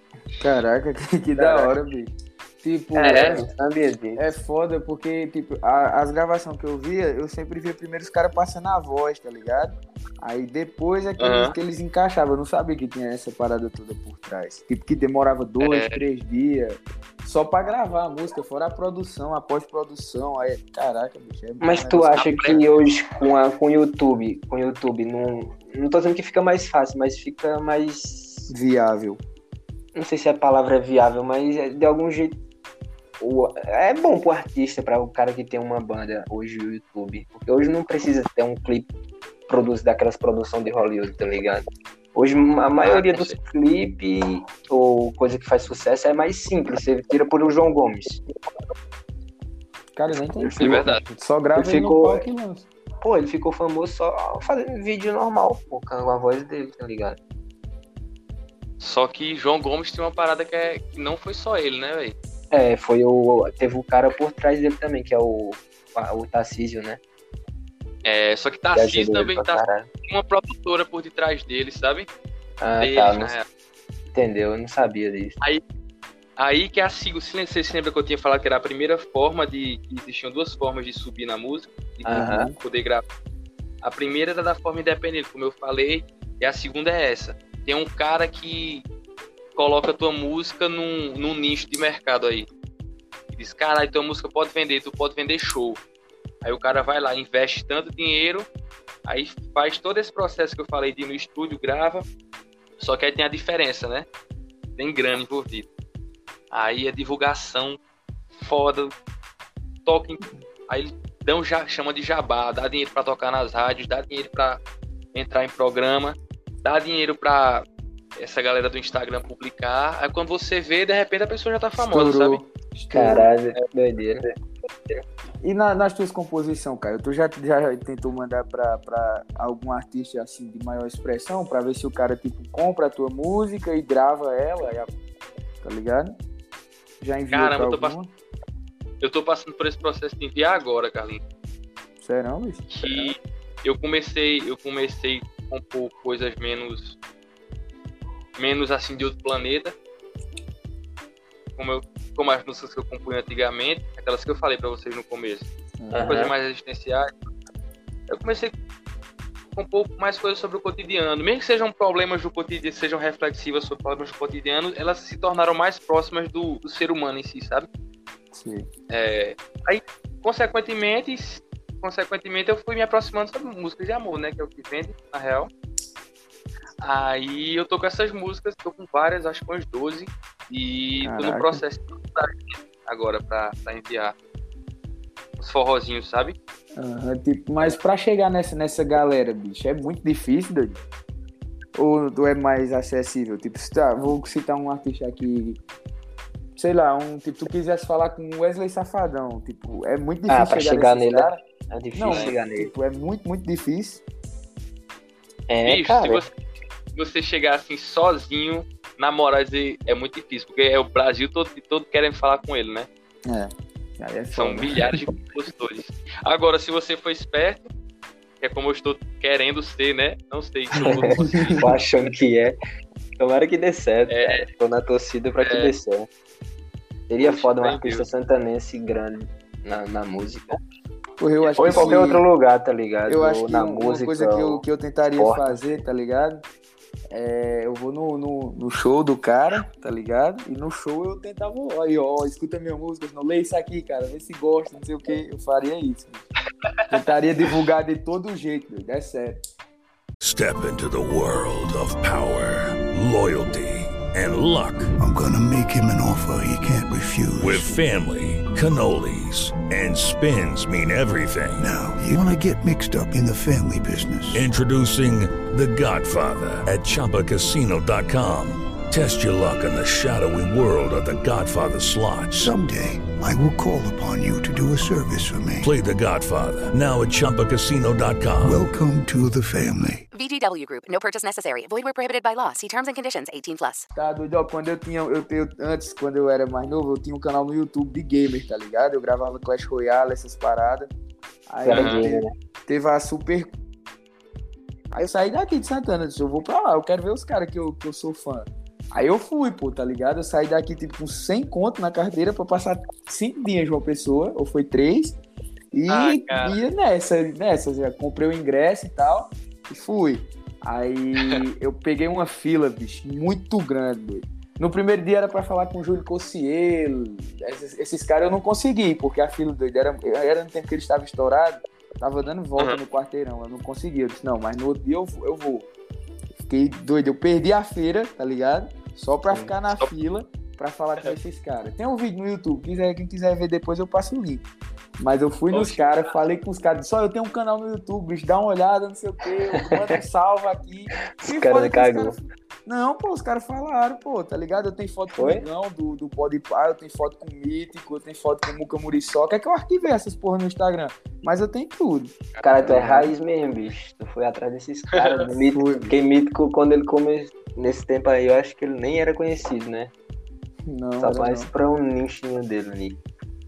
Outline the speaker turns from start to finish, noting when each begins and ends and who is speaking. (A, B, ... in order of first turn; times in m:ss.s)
0:00.4-0:03.5 A
0:01.4-0:01.7 B
0:03.0-0:04.2 B
0:03.0-0:03.4 C
0:04.2-0:22.6 A
0:11.2-0:11.5 C
0:15.6-0:16.0 C
0:21.6-0:28.5 B
0:22.2-0:22.6 C
0:28.5-0:29.2 A
0:30.0-0:32.4 B
0:33.2-0:38.9 B
0:39.5-0:48.2 B
0:42.8-0:43.4 C
0:50.0-0:52.7 A
0:50.4-0:51.0 B
0:50.6-0:51.0 C
0:51.6-0:52.2 B
0:53.0-0:57.2 B
0:58.8-1:02.1 C
1:02.5-1:07.0 B
1:08.0-1:12.1 C
1:08.8-1:09.9 B
1:12.6-1:13.3 B
1:12.8-1:13.4 C
1:14.1-1:15.4 B
1:16.4-1:23.0 C
1:22.0-1:22.5 B
1:22.1-1:22.6 A
1:23.8-1:28.8 C
1:29.6-1:32.5 C
1:33.3-1:35.8 C
1:36.4-1:38.5 C
1:39.1-1:42.0 C
1:42.8-1:44.1 C
1:44.8-1:45.7 C
1:46.5-1:47.8 C
1:48.4-1:48.9 C
1:49.9-1:54.6 C
1:55.1-1:57.6 C
1:58.2-2:02.4 C
2:01.8-2:03.3 A
2:02.9-2:04.3 B
2:05.4-2:14.9 A
2:15.6-2:16.2 A
2:17.0-2:18.1 A
2:17.3-2:18.0 C
2:19.0-2:21.2 C
2:22.0-2:23.1 A
2:22.7-2:27.0 C
2:28.4-2:29.7 C
2:31.6-2:35.5 C
2:35.8-2:36.1 A
2:35.9-2:36.3 B
2:36.0-2:37.1 C
2:38.1-2:38.5 C
2:39.5-2:47.7 C
2:48.3-2:48.7 A
2:48.9-2:55.5 C
2:56.8-3:04.1 C
3:01.0-3:01.6 A
3:05.4-3:06.4 C
3:06.8-3:10.8 A
3:11.8-3:15.6 A
3:16.6-3:21.4 A
3:20.3-3:22.7 B
3:21.9-3:24.0 A
3:22.1-3:22.4 C
3:25.5-3:26.2 B
3:25.6-3:26.3 C
3:27.0-3:32.9 C
3:33.3-3:35.0 A
3:34.3-3:37.7 C
3:38.4-3:41.6 C
3:40.8-3:42.6 B
3:41.1-3:41.7 A
3:43.2-3:46.1 B
3:44.1-3:44.5 C
3:45.4-3:45.7 C
3:47.1-3:50.6 B
3:47.2-3:48.0 C
3:51.2-3:52.2 A
3:51.4-3:52.0 C
3:51.6-3:54.6 B
3:53.1-3:56.4 A
3:55.2-3:55.6 B
3:57.1-4:06.2 A
4:06.9-4:09.4 A
4:10.2-4:14.9 D
4:15.0-4:17.8 E
4:17.4-4:21.7 D
4:21.6-4:24.5 E
4:24.3-4:32.5 D
4:32.4-4:35.7 E
4:35.6-4:38.6 D
4:38.4-4:40.0 E
4:40.1-4:43.9 F
4:44.0-4:50.9 A
4:51.5-4:53.5 A
4:51.6-4:52.3 B
4:51.7-4:52.0 C
4:54.9-5:05.2 A
5:05.7-5:25.7 A
5:05.9-5:06.6 C
5:26.4-5:34.4 A
5:35.0-5:53.1 A
5:35.5-5:36.1 C
5:41.2-5:42.2 B
5:45.1-5:45.4 B
5:52.4-5:59.9 B
5:55.0-5:55.2 C
5:55.2-5:55.9 A
6:00.7-6:01.5 A
6:01.0-6:03.0 B